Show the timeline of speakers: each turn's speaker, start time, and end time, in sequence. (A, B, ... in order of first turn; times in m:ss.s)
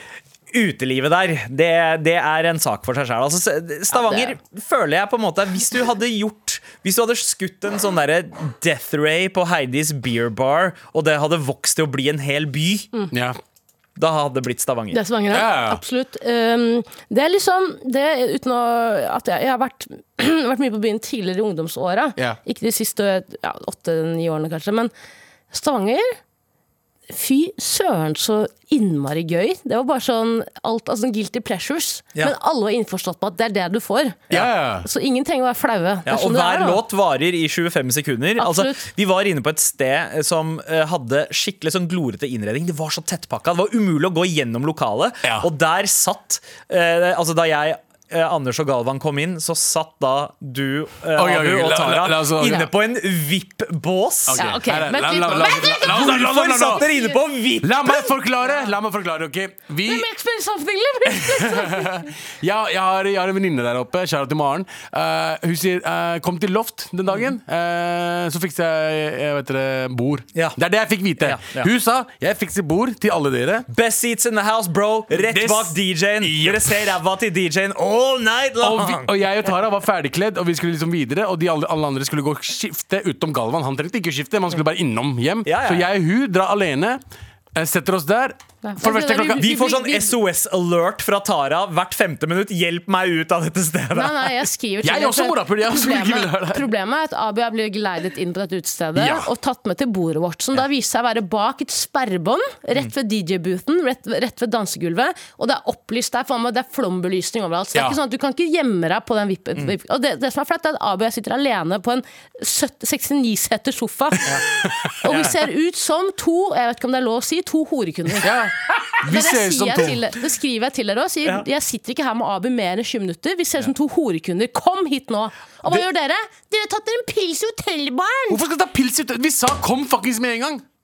0:00.5-0:12.9 A
0:03.9-0:04.4 B
0:13.1-0:13.4 C
0:14.0-0:15.0 A
0:14.9-0:24.9 B
0:15.3-0:15.8 C
0:25.5-0:26.2 B
0:27.1-0:34.3 B
0:34.3-0:34.9 C
0:34.8-0:36.8 B
0:36.1-0:54.5 A
0:38.4-0:38.9 B
0:45.2-0:45.5 C
0:51.2-0:52.7 C
0:54.3-0:56.9 C
0:54.4-0:57.2 B
0:55.7-0:57.9 A
0:57.6-1:00.1 C
0:59.9-1:02.1 B
1:01.0-1:13.7 C
1:11.2-1:11.7 A
1:13.7-1:19.1 A
1:15.1-1:17.0 C
1:18.6-1:27.0 C
1:25.4-1:25.9 A
1:27.6-1:29.5 C
1:28.6-1:30.2 B
1:29.4-1:34.3 A
1:33.9-1:54.3 B
1:34.8-1:36.7 C
1:39.0-1:39.3 C
1:55.0-1:55.4 A
1:55.0-1:58.3 B
1:58.2-2:00.0 C
1:59.0-2:08.4 B
2:08.3-2:10.6 C